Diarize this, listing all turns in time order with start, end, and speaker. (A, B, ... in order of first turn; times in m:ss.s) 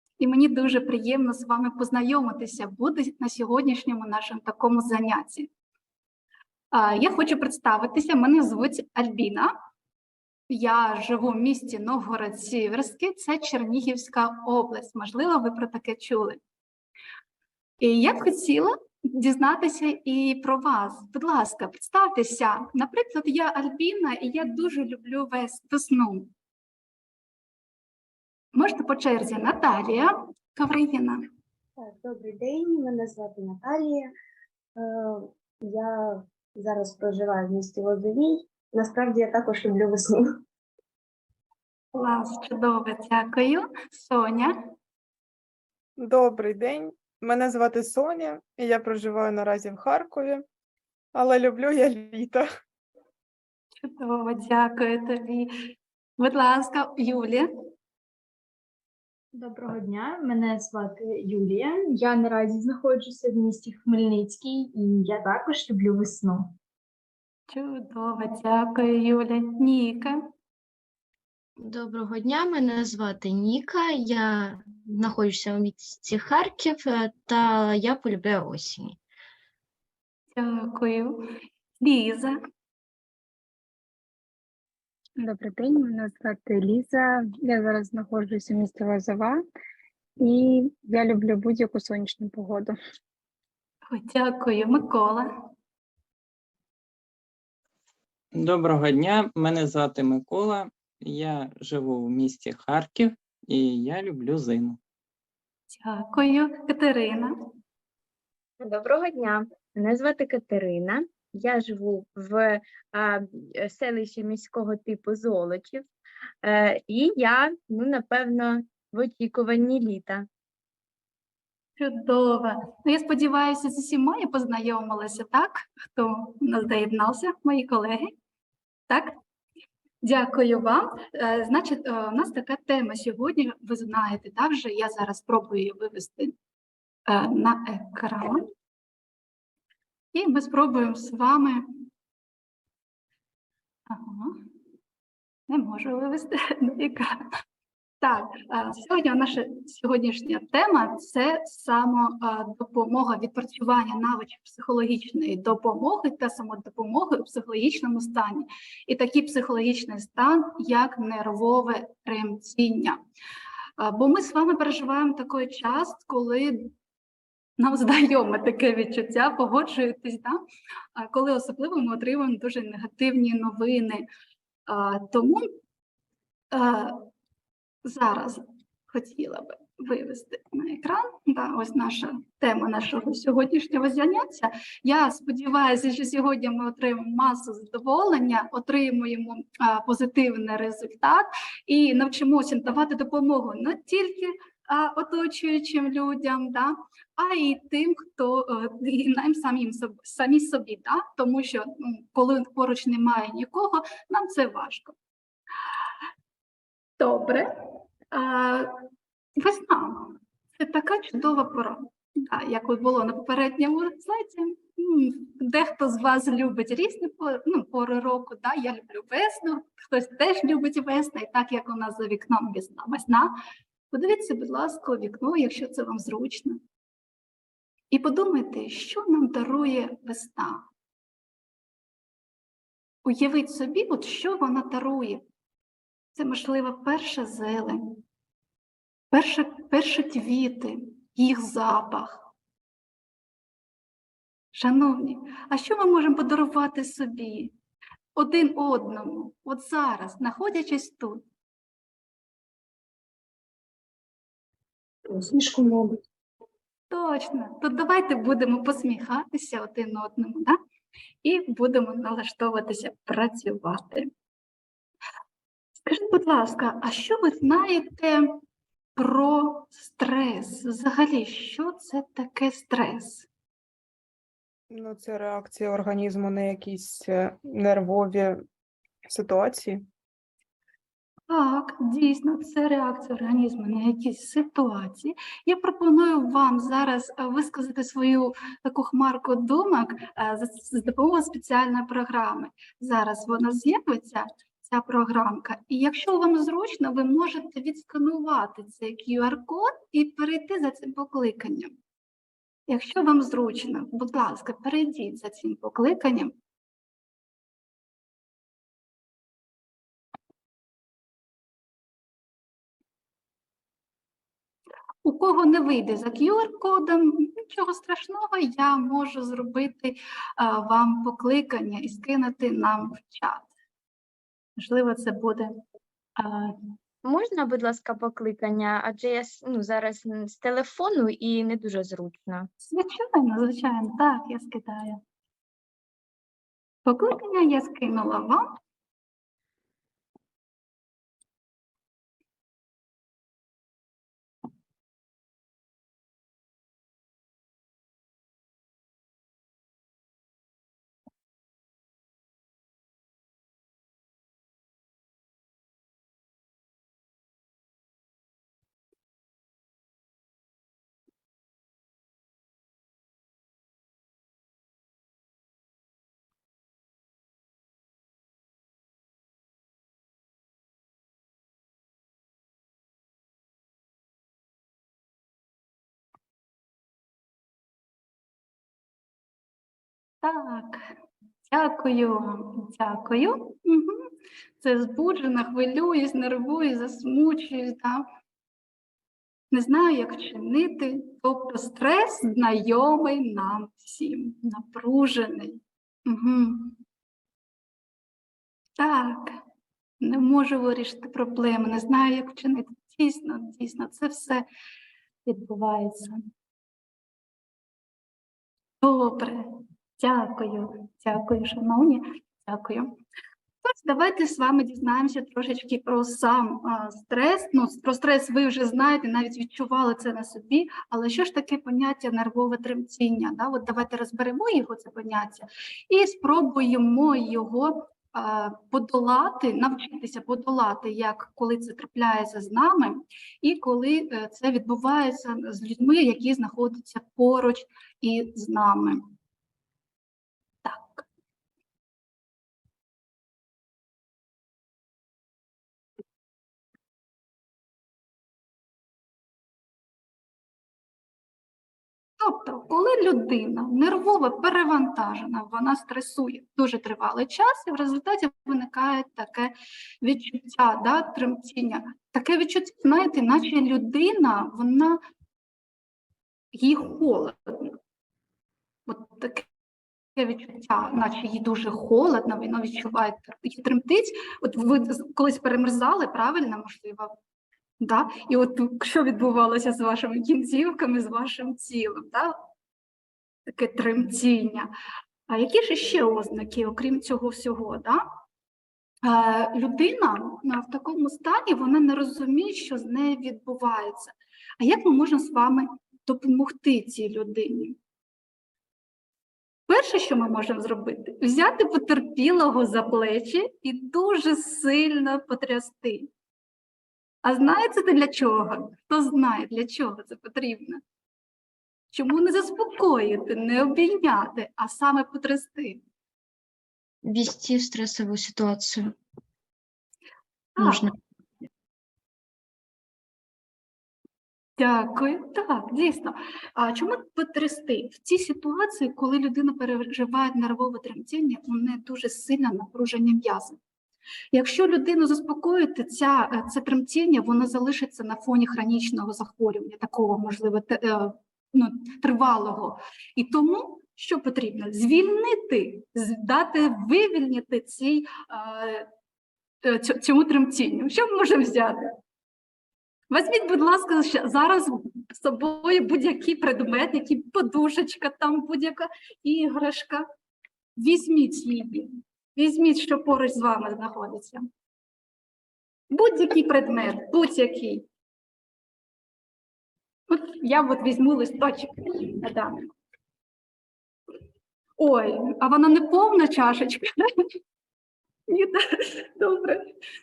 0:00.2-0:05.5 A
0:06.7-0:09.5 A
0:10.5-0:16.4 A
0:17.8-0:26.3 A
0:28.5-0:31.2 A
0:31.8-0:34.1 B
0:34.8-0:40.2 B
0:41.9-0:44.5 A
0:46.0-0:50.4 C
0:51.1-0:52.4 C
0:53.8-0:55.5 A
0:56.2-0:57.5 A
0:59.3-1:06.5 D
1:07.5-1:10.2 A
1:11.6-1:19.0 E
1:20.3-1:21.2 A
1:21.8-1:22.4 A
1:25.2-1:29.4 F
1:30.2-1:32.8 F
1:33.9-1:35.3 A
1:38.3-1:44.8 G
1:45.7-1:47.3 A
1:48.6-1:55.9 H
1:56.4-2:00.3 H
2:01.8-2:08.1 A
2:10.0-2:16.3 A
2:17.1-2:18.4 A
2:20.1-2:21.6 A
2:23.9-2:24.4 A
2:25.5-2:27.2 A
2:28.0-2:43.0 A
2:43.8-2:46.7 A
2:47.6-2:50.4 A
2:51.0-2:54.1 A
2:54.7-2:55.5 A
2:56.5-2:57.0 A
2:57.8-3:25.0 A
3:27.0-3:27.5 A
3:28.1-3:28.7 A
3:29.4-3:43.3 A
3:43.9-3:46.6 A
3:47.9-3:50.6 A
3:53.0-3:55.2 A
3:56.1-3:58.0 A
3:59.1-4:02.3 A
4:04.5-4:07.5 A
4:08.2-4:11.2 A
4:15.1-4:15.9 B
4:16.9-4:20.6 A
4:21.2-4:24.1 A
4:25.8-4:28.3 A
4:29.0-4:33.3 A
4:34.7-4:38.4 C
4:39.1-4:39.8 C
4:41.3-5:01.7 A
5:02.7-5:06.3 A
5:15.0-5:23.5 A
5:24.6-5:25.5 A
5:26.2-5:26.6 A
5:27.0-5:32.5 H
5:32.6-5:35.0 A
5:36.8-5:38.5 A
6:20.2-6:20.9 A
6:21.5-6:28.0 A
6:29.5-6:36.8 A
6:38.8-6:39.4 A
6:40.0-6:44.4 A
6:45.3-6:46.2 A
6:48.8-6:52.9 A
6:53.6-7:19.0 A
7:20.6-7:21.1 A
7:32.2-7:45.0 A
7:46.5-7:47.8 A
7:48.9-7:49.5 A
7:50.2-7:57.2 A
7:57.8-8:02.4 A
8:03.5-8:04.7 A
8:05.3-8:08.0 A
8:09.0-8:17.8 A
8:19.7-8:26.1 A
8:27.2-8:30.8 A
8:31.9-8:35.8 A
8:37.0-8:38.9 E
8:40.6-8:40.8 A
8:40.6-8:40.9 E
8:44.6-8:53.6 A
8:54.3-9:08.9 A
9:09.6-9:11.9 A
9:13.1-9:20.0 A
9:20.8-9:24.5 A
9:25.9-9:27.9 A
9:30.1-9:32.7 A
9:34.8-9:37.2 A
9:38.3-9:39.7 A